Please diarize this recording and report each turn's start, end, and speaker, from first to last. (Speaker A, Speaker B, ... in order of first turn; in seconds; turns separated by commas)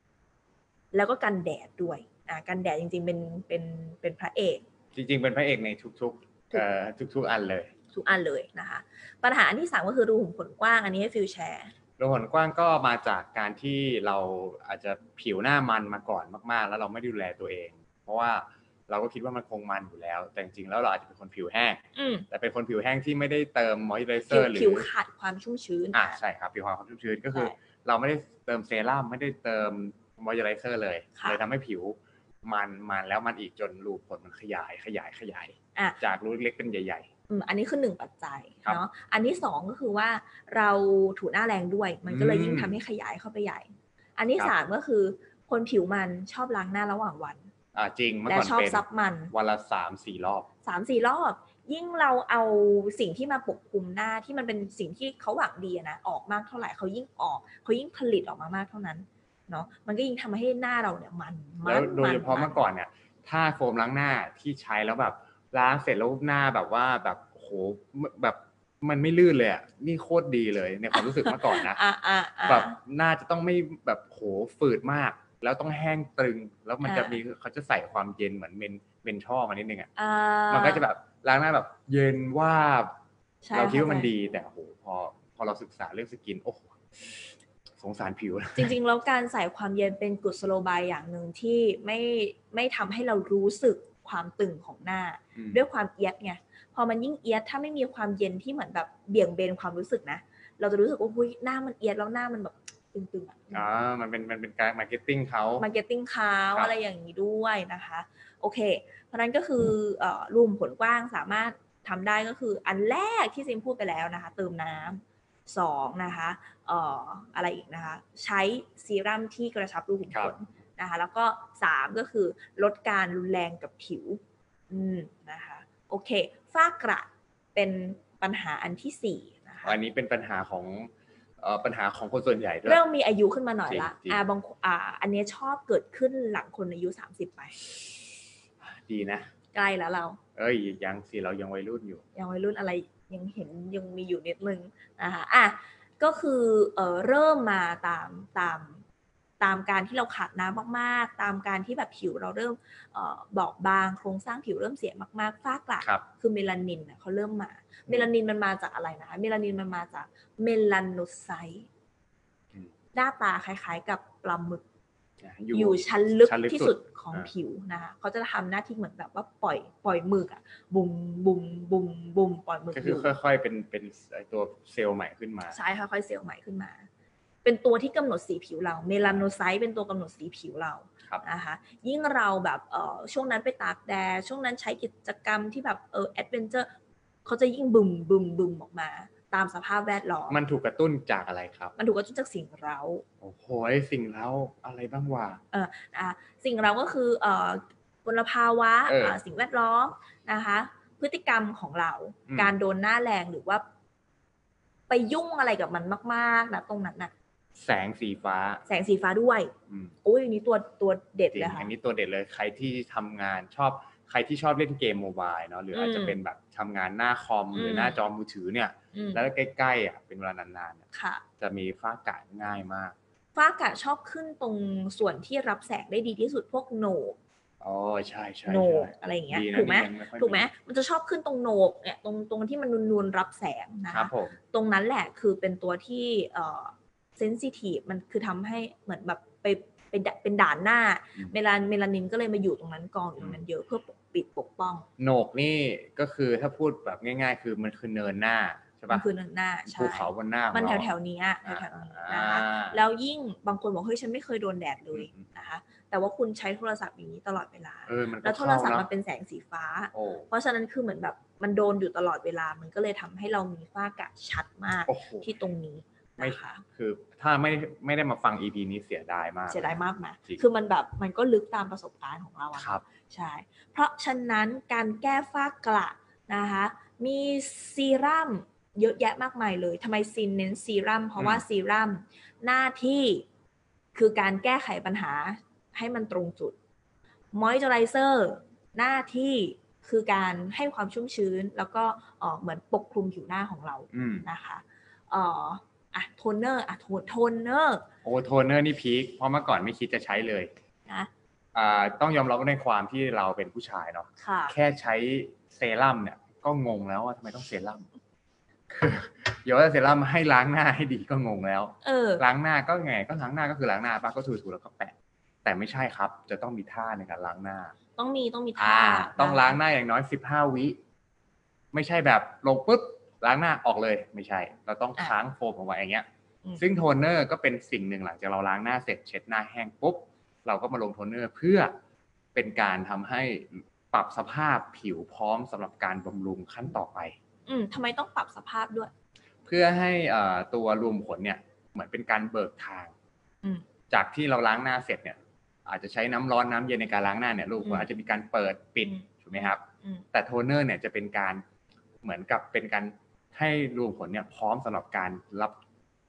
Speaker A: 0.9-4.6, Speaker B: 4.9-7.7, Speaker A: 7.9-11.7, Speaker B: 12.0-24.9, Speaker A: 21.9-22.3, Speaker A: 24.3-26.2, Speaker B: 25.9-37.1, Speaker A: 31.1-31.4, Speaker A: 35.8-36.0, Speaker A: 37.3-47.5, Speaker B: 42.1-42.8, Speaker B: 47.7-50.5, Speaker A: 48.3-49.3, Speaker A: 50.6-62.6, Speaker B: 61.6-71.8, Speaker A: 70.9-72.8, Speaker B: 72.5-79.9, Speaker A: 76.8-77.2, Speaker A: 80.0-80.8, Speaker B: 80.5-82.9, Speaker A: 83.4-84.1, Speaker B: 83.5-88.7, Speaker A: 88.5-103.7, Speaker B: 95.3-95.6, Speaker B: 103.5-105.7, Speaker A: 105.6-129.8, Speaker B: 120.1-120.3, Speaker B: 129.6-132.8, Speaker A: 132.7-137.6, Speaker B: 133.7-134.2, Speaker B: 138.6-139.3, Speaker A: 139.5-140.2, Speaker B: 140.3-142.0, Speaker A: 142.1-148.8, Speaker A: 149.4-161.7, Speaker A: 162.9-164.6, Speaker B: 165.2-167.3, Speaker A: 165.5-173.1, Speaker B: 172.7-175.6, Speaker A: 175.5-176.8, Speaker A: 177.4-186.7, Speaker B: 179.0-179.3, Speaker A: 187.2-190.4, Speaker B: 190.3-191.7, Speaker A: 191.8-193.0, Speaker B: 193.2-195.4, Speaker A: 195.5-203.6, Speaker B: 198.8-199.2, Speaker B: 202.3-202.5, Speaker A: 204.9-207.1, Speaker B: 207.6-208.6, Speaker A: 208.7-211.7, Speaker B: 209.7-209.9, Speaker B: 211.3-220.8, Speaker A: 215.7-216.2, Speaker A: 217.5-218.0, Speaker A: 218.9-219.2, Speaker A: 220.9-221.2, Speaker B: 221.4-222.9, Speaker A: 223.3-227.2, Speaker B: 227.6-230.5, Speaker A: 228.5-244.9, Speaker B: 233.9-234.4, Speaker B: 245.0-249.1, Speaker A: 248.9-266.6, Speaker B: 249.7-250.9, Speaker B: 251.4-252.8, Speaker B: 254.9-255.3, Speaker B: 257.9-258.9, Speaker B: 259.9-260.3, Speaker B: 264.9-265.3, Speaker B: 266.2-270.4, Speaker A: 269.5-283.2, Speaker B: 272.6-272.8, Speaker B: 281.2-281.4, Speaker A: 283.9-286.5, Speaker A: 287.3-297.9, Speaker B: 293.9-294.3, Speaker B: 298.0-300.5, Speaker B: 301.5-307.9, Speaker A: 304.2-304.5, Speaker B: 308.7-314.9, Speaker A: 311.8-312.2, Speaker B: 315.4-317.7, Speaker A: 318.0-319.6, Speaker B: 318.6-320.8, Speaker B: 321.7-326.1, Speaker B: 326.6-331.7, Speaker B: 332.3-337.1, Speaker A: 337.5-338.9, Speaker B: 339.4-342.9, Speaker B: 343.9-351.4, Speaker A: 347.6-347.9, Speaker A: 348.8-350.0, Speaker B: 352.0-355.6